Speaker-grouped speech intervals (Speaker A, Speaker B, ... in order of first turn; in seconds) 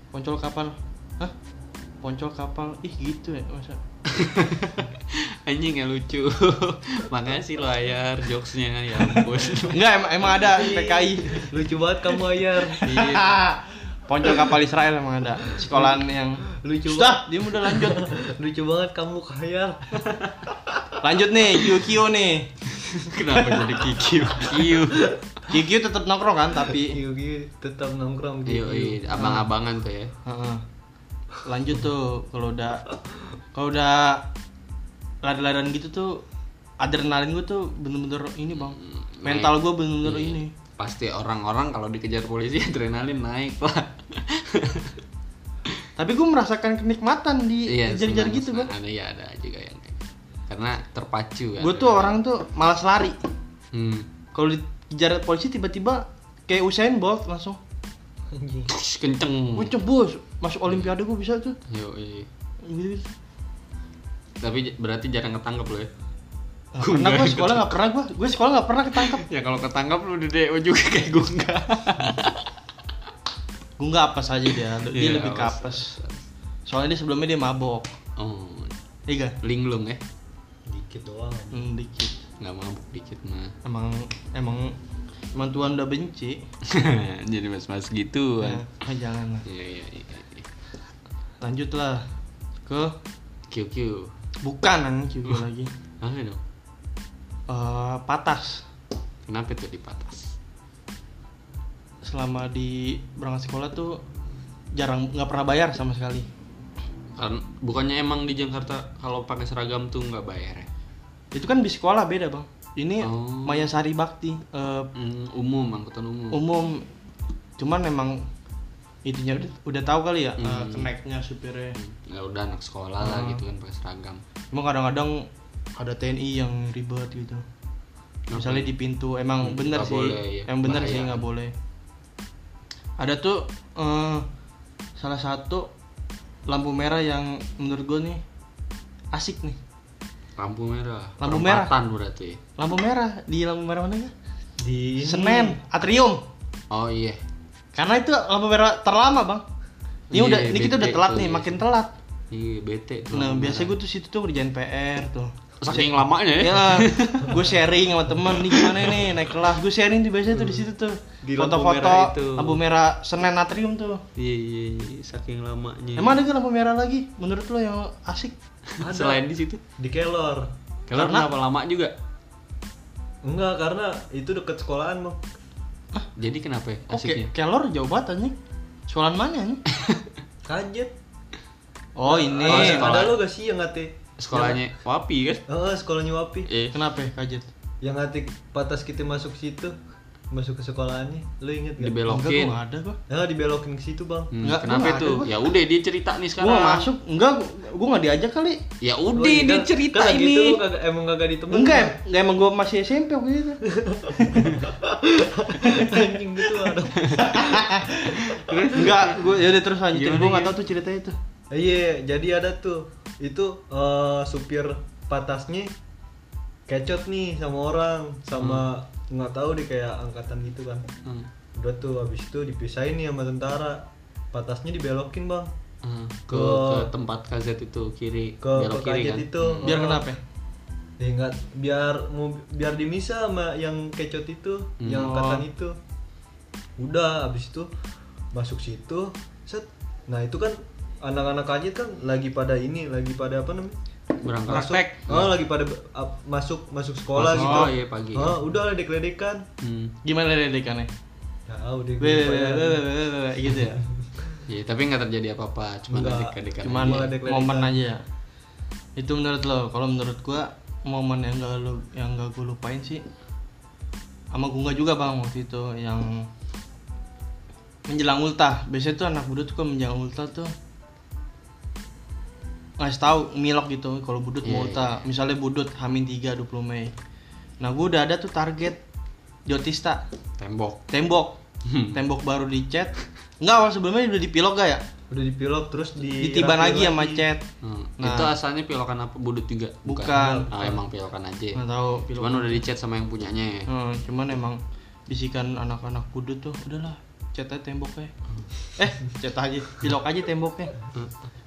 Speaker A: 0.1-1.3, 2.0-3.8, 9.7-11.5, 12.9-18.1, 21.0-22.5, 25.5-27.0, 29.1-29.4, 30.2-30.6, 31.4-32.9, 33.5-34.3, 35.2-36.2, 36.8-40.5, 46.0-48.7, 51.6-53.2, 54.3-57.6, 59.5-61.6, 62.6-63.1, 66.7-69.2, 73.8-76.0, 76.7-77.9, 79.1-79.4, 81.5-82.2, 83.6-84.8, 85.3-86.4, 88.4-89.4, 91.4-92.1, 92.7-92.9, 94.4-95.7, 97.5-98.6, 102.0-104.0, 104.7-106.3, 111.3-114.9, 116.3-116.9, 117.6-118.3, 119.0-121.8, 123.0-123.4, 124.5-127.4, 128.3-131.5, 133.0-134.2, 135.0-135.7, 136.5-138.2, 139.1-139.6, 141.2-141.7, 142.6-144.1, 145.0-146.2, 147.7-149.4, 150.1-151.9, 153.1-164.0, 165.9-168.3, 170.9-171.2, 176.9-178.3, 178.9-179.6, 182.0-182.9, 186.7-187.5, 192.1-193.0, 194.4-195.3, 196.4-198.6, 201.5-203.6, 204.2-204.6, 205.6-206.0, 207.1-211.2, 229.6-230.2, 234.9-235.4, 247.3-247.7, 250.0-250.9, 252.0-253.8, 256.6-258.0, 258.9-263.0, 264.3-266.3, 267.9-270.5, 272.8-276.9, 277.6-278.8, 279.5-280.0, 280.9-281.4, 281.9-284.8, 286.2-287.4, 288.0-288.3, 289.9-290.5, 291.5-292.6, 293.7-298.1, 298.8-300.7
Speaker B: 4.0-9.8, 12.8-13.4, 22.7-25.2, 28.4-30.1, 38.5-45.0, 47.6-52.2, 53.7-54.1, 58.7-59.7, 61.7-62.3, 64.4-65.9, 66.8-67.8, 68.9-72.5, 74.7-76.2, 78.2-78.7, 79.4-80.0, 82.4-83.5, 86.6-88.7, 89.4-90.5, 93.5-94.1, 96.0-96.4, 99.2-100.3, 107.2-110.7, 113.0-113.7, 114.9-116.4, 120.4-120.9, 121.8-124.2, 128.3-128.7, 129.4-131.2, 140.3-142.4, 146.7-147.2, 150.1-151.6, 152.3-153.8, 155.6-157.5, 158.2-159.3, 160.3-160.6, 161.8-162.6, 164.2-166.2, 168.7-169.6, 170.9-171.9, 176.2-177.3, 179.7-180.0, 182.4-183.2, 184.2-185.4, 186.4-186.8, 191.8-192.6, 194.3-196.9, 198.8-200.6, 207.0-207.5, 208.2-209.3, 209.9-210.6, 218.4-218.7, 225.8-229.7, 234.8-235.2, 244.2-245.3, 247.1-248.4, 249.6-249.9, 254.5-257.1, 274.4-275.0, 280.4-280.9, 281.6-282.0, 287.6-291.6, 292.1-293.7
Speaker C: 10.3-12.9, 16.5-20.2, 23.4-23.7, 24.7-25.1, 26.8-29.1, 58.3-58.7, 80.7-81.7, 144.6-145.6, 161.2-162.1, 168.8-169.2, 169.8-170.5, 173.2-175.2, 180.4-180.9, 182.0-184.6, 185.5-186.5, 187.8-189.8, 190.3-192.0, 193.1-194.3, 199.1-202.0, 203.7-207.4, 211.5-215.7, 216.7-220.8, 221.6-225.5, 226.3-226.9, 228.4-230.1, 231.0-235.8, 236.8-237.7, 238.3-243.8, 244.5-249.5, 251.5-252.8, 255.9-257.7, 285.1-287.2, 290.1-290.8